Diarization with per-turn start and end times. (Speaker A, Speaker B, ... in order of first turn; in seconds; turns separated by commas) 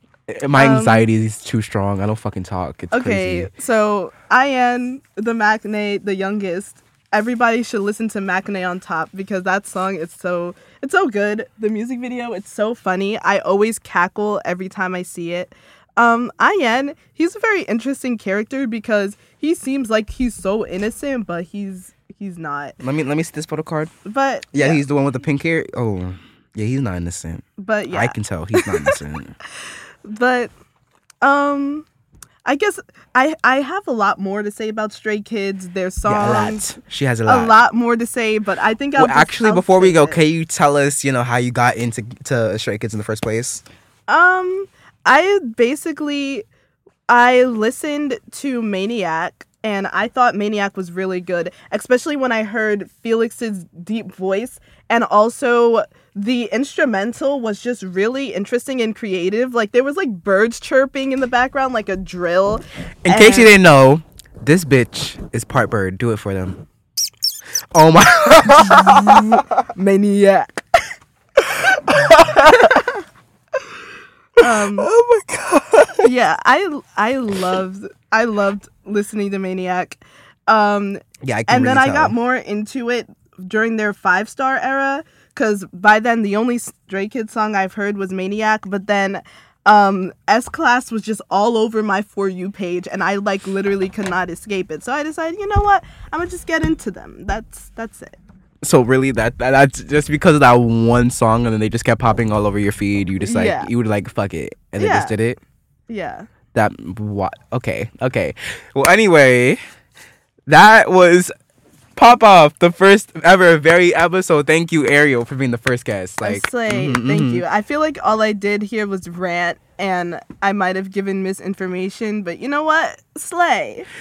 Speaker A: 0.3-3.5, Speaker B: 0.5-1.1, Speaker B: 2.9-22.8, Speaker A: 22.8-23.9, Speaker B: 24.1-24.8, Speaker A: 24.5-29.3, Speaker B: 27.6-29.0, Speaker B: 30.1-30.5, Speaker B: 31.2-31.9, Speaker B: 32.5-36.7, Speaker A: 36.0-37.5, Speaker B: 37.3-40.2, Speaker A: 39.0-43.6, Speaker B: 44.1-46.5, Speaker B: 47.1-63.5, Speaker A: 63.1-66.6, Speaker A: 67.7-69.5, Speaker B: 68.6-70.6, Speaker A: 71.7-72.9, Speaker B: 72.4-72.9, Speaker B: 74.4-74.9, Speaker A: 74.4-76.1, Speaker B: 76.0-98.2, Speaker A: 81.2-82.2, Speaker A: 98.6-105.4, Speaker B: 103.2-103.7, Speaker B: 104.8-105.1, Speaker B: 105.9-106.3, Speaker A: 106.5-109.6, Speaker A: 110.5-111.3, Speaker A: 112.0-117.4, Speaker B: 116.2-123.9